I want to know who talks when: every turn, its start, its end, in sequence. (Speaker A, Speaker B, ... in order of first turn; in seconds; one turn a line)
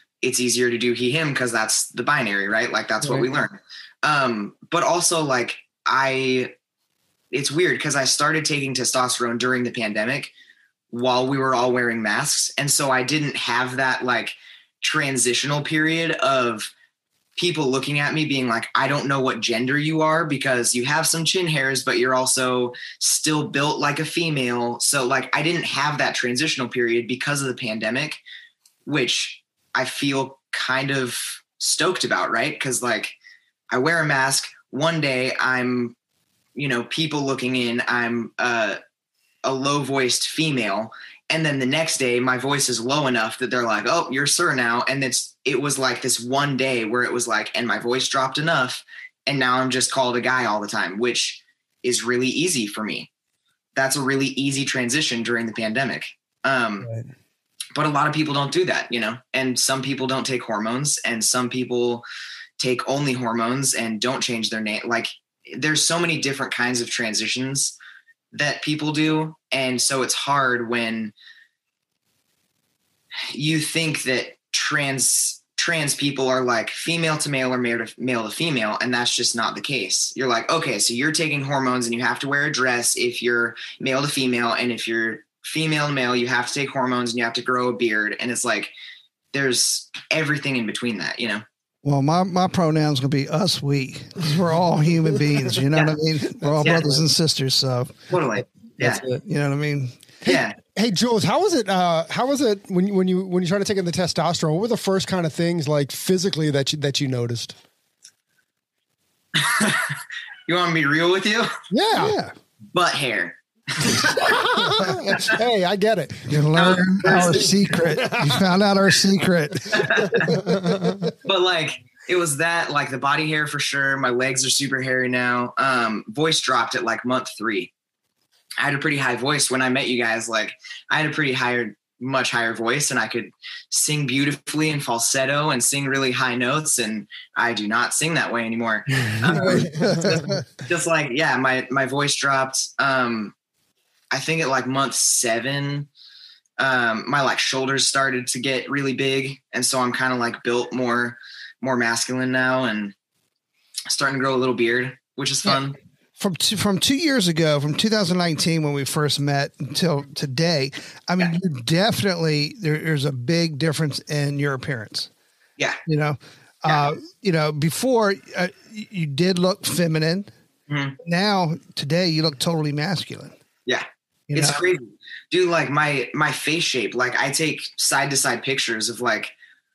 Speaker A: 0.2-6.5
Speaker A: 7.3-10.3
Speaker A: 10.9-16.7
Speaker A: 17.4-28.2
Speaker A: 28.9-33.1
Speaker A: 33.7-35.9
Speaker A: 36.5-38.8
Speaker A: 39.4-53.1
Speaker A: 53.7-56.9
Speaker B: 56.8-57.1
Speaker A: 57.7-62.0
Speaker A: 62.6-67.7
Speaker A: 68.3-71.1
Speaker A: 73.3-88.7
Speaker A: 89.3-91.4
Speaker C: 91.8-100.0
Speaker B: 96.4-97.0
Speaker A: 96.6-96.9
Speaker A: 98.1-99.0
Speaker B: 98.8-99.2
Speaker A: 100.2-100.5
Speaker B: 100.3-107.5
Speaker A: 109.3-109.9
Speaker A: 110.5-111.5
Speaker B: 111.7-112.1
Speaker C: 112.0-112.3
Speaker A: 112.7-114.4
Speaker B: 114.0-116.5
Speaker C: 116.3-120.9
Speaker A: 116.5-117.5
Speaker B: 117.0-118.5
Speaker A: 119.7-120.3
Speaker B: 120.1-121.1
Speaker A: 121.2-127.7
Speaker A: 128.6-140.0
Speaker B: 139.2-140.4
Speaker C: 139.4-140.4
Speaker A: 140.7-143.3
Speaker A: 144.1-145.9
Speaker A: 146.6-152.9
Speaker A: 153.9-155.8
Speaker C: 156.2-165.1
Speaker C: 165.9-170.3
Speaker A: 170.7-170.9
Speaker C: 171.0-173.3
Speaker A: 173.7-179.3
Speaker C: 174.3-174.6